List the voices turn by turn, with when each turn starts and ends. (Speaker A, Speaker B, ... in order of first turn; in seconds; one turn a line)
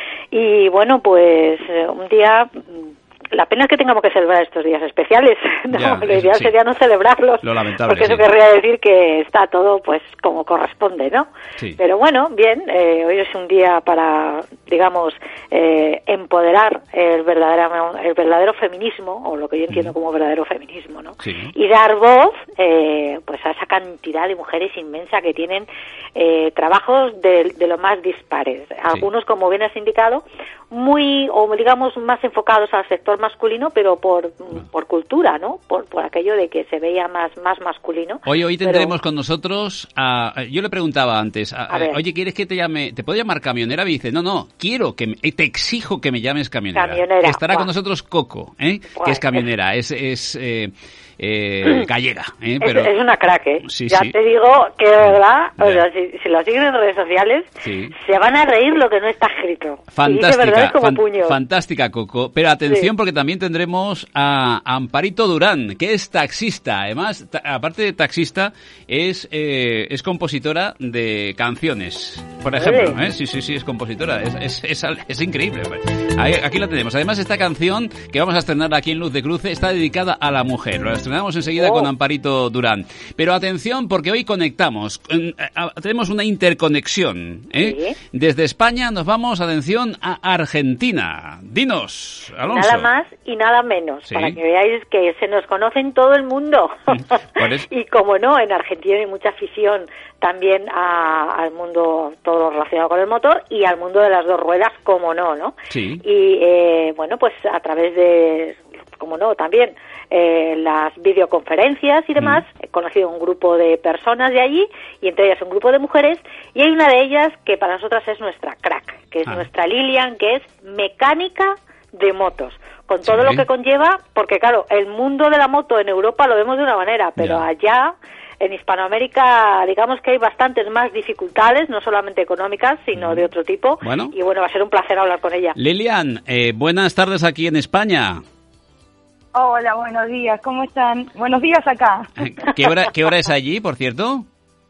Speaker A: 0.3-38.9
Speaker B: 5.7-6.5
Speaker B: 7.4-8.2
Speaker B: 21.2-21.5
Speaker B: 38.2-52.9
Speaker A: 41.7-42.0
Speaker A: 46.7-47.7
Speaker A: 49.0-49.4
Speaker A: 52.6-61.4
Speaker B: 53.6-54.1
Speaker B: 57.6-57.9
Speaker B: 59.9-92.9
Speaker A: 72.5-73.0
Speaker A: 81.6-81.9
Speaker A: 87.5-88.0
Speaker A: 92.5-97.1
Speaker B: 94.1-94.4
Speaker B: 96.9-97.7
Speaker A: 97.7-135.6
Speaker B: 105.7-106.0
Speaker B: 112.2-112.4
Speaker B: 123.0-123.4
Speaker B: 127.2-127.4
Speaker B: 132.9-133.2
Speaker B: 133.8-134.1
Speaker B: 135.6-138.2
Speaker C: 139.3-142.1
Speaker B: 142.2-144.3